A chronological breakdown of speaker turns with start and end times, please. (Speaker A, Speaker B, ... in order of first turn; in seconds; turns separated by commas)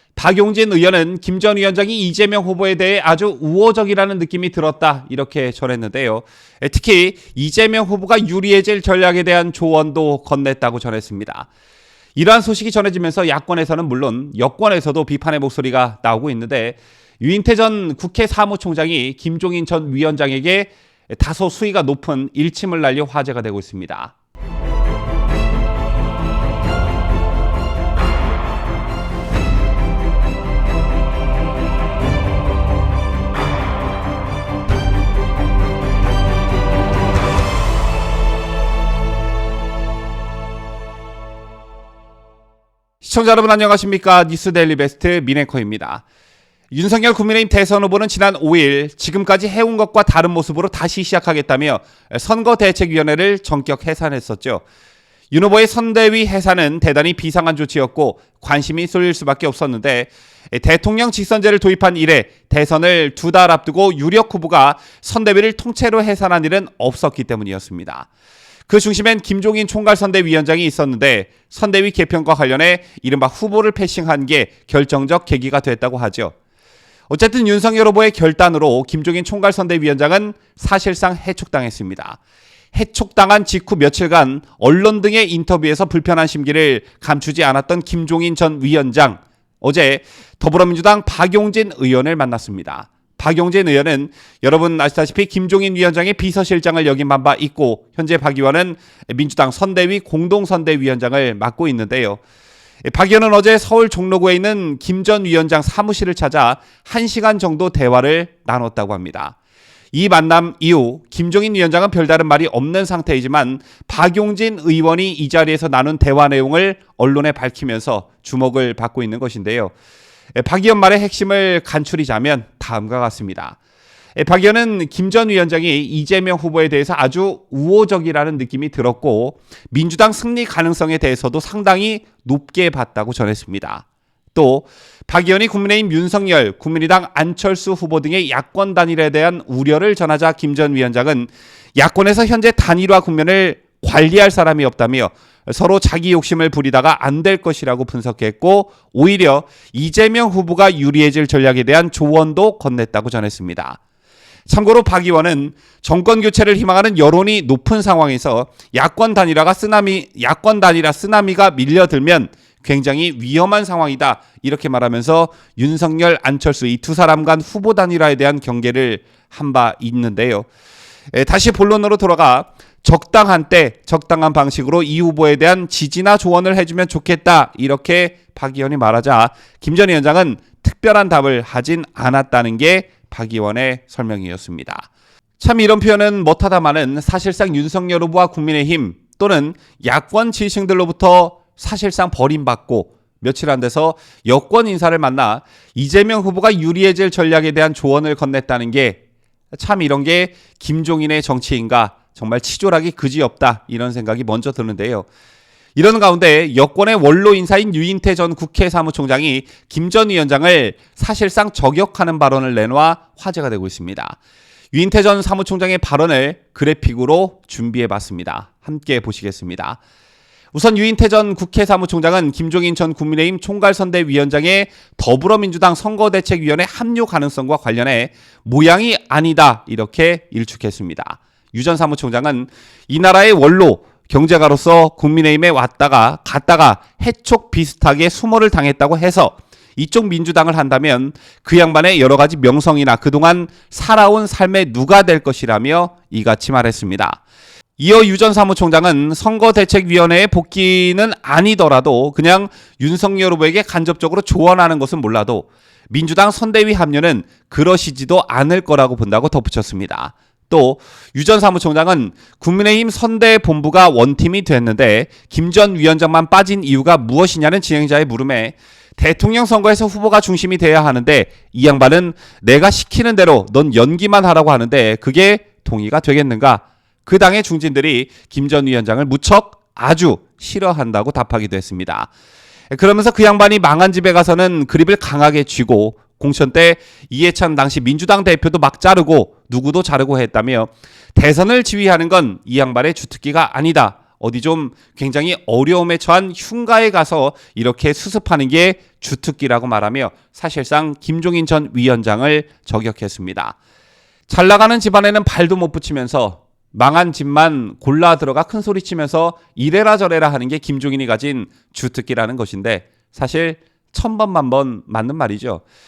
Speaker A: 0.1-11.5, Speaker A: 12.2-24.1, Speaker A: 43.0-46.0, Speaker A: 46.7-54.6, Speaker A: 55.3-68.1, Speaker A: 68.7-76.3, Speaker A: 77.1-82.2, Speaker A: 82.7-102.2, Speaker A: 102.8-109.3, Speaker A: 109.9-119.7, Speaker A: 120.3-123.6, Speaker A: 124.2-153.8, Speaker A: 154.5-170.5, Speaker A: 171.1-199.0, Speaker A: 199.5-205.1, Speaker A: 205.8-214.2, Speaker A: 214.7-219.8, Speaker A: 220.5-247.2, Speaker A: 247.8-282.1, Speaker A: 282.7-303.6, Speaker A: 304.3-315.6